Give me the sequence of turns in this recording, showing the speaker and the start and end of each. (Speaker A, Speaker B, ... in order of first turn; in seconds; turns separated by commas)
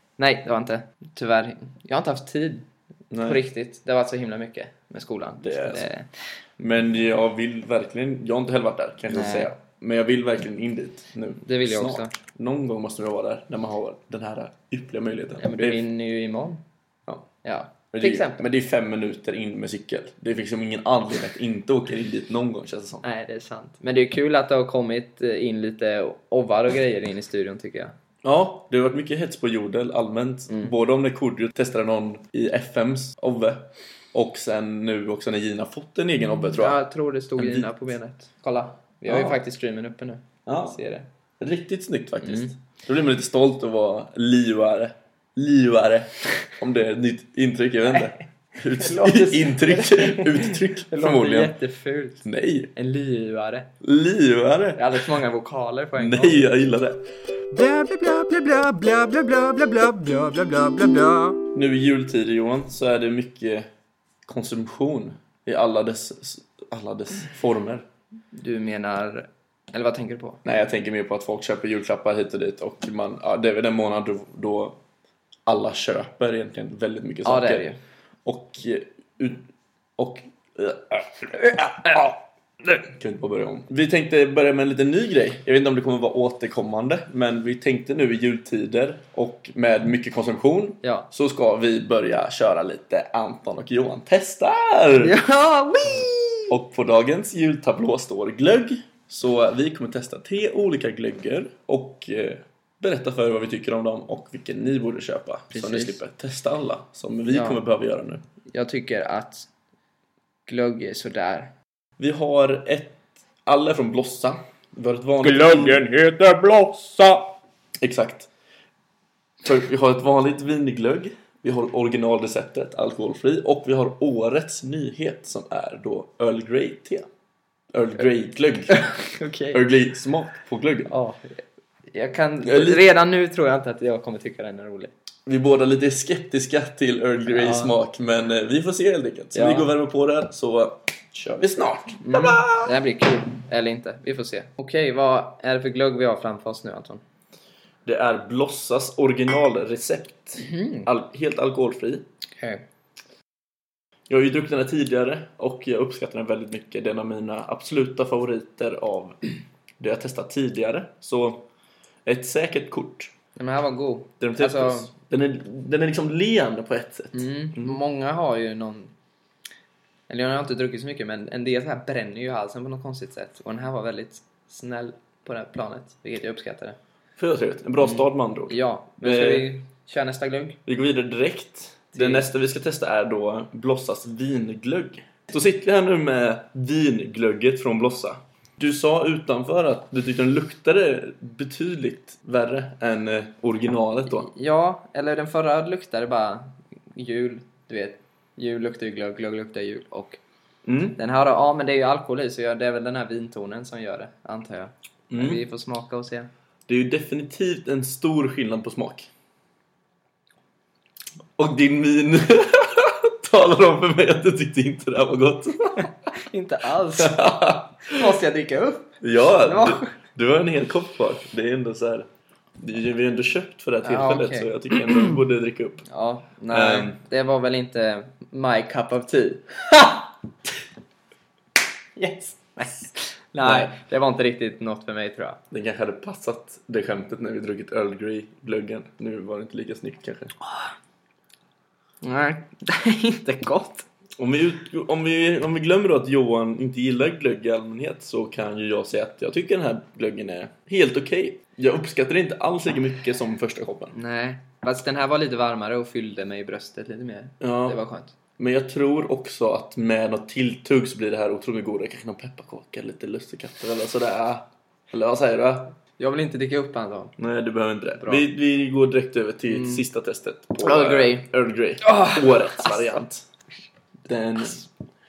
Speaker A: 0.2-2.6, Speaker B: 3.1-3.4, Speaker A: 3.2-6.1, Speaker B: 5.4-5.9, Speaker B: 6.6-15.8, Speaker A: 9.1-9.5, Speaker A: 11.4-12.1, Speaker A: 15.4-16.6, Speaker A: 17.4-18.4, Speaker B: 17.9-23.0, Speaker A: 23.0-27.9, Speaker B: 28.2-36.8, Speaker A: 36.5-41.0, Speaker B: 37.4-37.7, Speaker B: 39.1-39.4, Speaker B: 40.5-40.8, Speaker B: 41.4-51.5, Speaker A: 42.2-42.5, Speaker A: 48.7-53.7, Speaker B: 52.2-52.7, Speaker B: 53.8-54.8, Speaker A: 54.8-56.5, Speaker B: 56.0-57.0, Speaker C: 57.5-61.4, Speaker B: 61.5-63.7, Speaker B: 64.2-67.8, Speaker A: 68.3-70.4, Speaker B: 70.4-74.8, Speaker B: 75.5-77.7, Speaker A: 77.2-77.8, Speaker B: 78.2-95.1, Speaker A: 90.8-91.1, Speaker A: 95.0-96.5, Speaker B: 96.5-108.2, Speaker A: 105.5-106.0, Speaker A: 107.3-107.6, Speaker A: 108.5-109.5, Speaker A: 110.5-111.5, Speaker B: 112.0-115.8, Speaker C: 115.2-117.3, Speaker B: 117.8-118.3, Speaker B: 119.4-127.1, Speaker B: 127.7-128.8, Speaker A: 128.7-129.6, Speaker B: 129.5-130.9, Speaker A: 130.9-134.9, Speaker B: 132.4-132.8, Speaker B: 135.2-142.7, Speaker A: 137.3-137.8, Speaker A: 139.3-139.7, Speaker A: 142.0-147.0, Speaker B: 147.8-152.0, Speaker A: 150.4-150.9, Speaker B: 154.1-159.2, Speaker B: 159.8-161.4, Speaker B: 162.0-163.1, Speaker A: 163.3-164.9, Speaker B: 164.2-167.8, Speaker A: 167.1-168.9, Speaker A: 170.1-176.8, Speaker B: 177.2-179.5, Speaker A: 177.8-180.6, Speaker B: 180.7-194.3, Speaker A: 181.9-182.3, Speaker A: 194.1-200.2, Speaker B: 200.6-201.0, Speaker A: 201.0-206.3, Speaker B: 205.1-205.4, Speaker B: 206.7-209.1, Speaker B: 211.4-215.9, Speaker A: 216.1-217.2, Speaker B: 217.0-218.1, Speaker A: 217.8-219.9, Speaker B: 219.0-225.8, Speaker A: 223.8-224.5, Speaker A: 225.9-230.1, Speaker B: 226.5-227.0, Speaker A: 231.9-235.4, Speaker B: 233.4-233.7, Speaker B: 235.5-240.3, Speaker A: 242.0-243.8, Speaker B: 244.2-253.9, Speaker A: 253.9-258.1, Speaker B: 257.4-257.8, Speaker B: 258.4-265.7, Speaker A: 266.0-267.1, Speaker B: 267.2-273.2, Speaker A: 268.0-268.2, Speaker A: 269.5-269.8, Speaker A: 270.6-271.3, Speaker A: 271.8-273.0, Speaker B: 274.0-274.6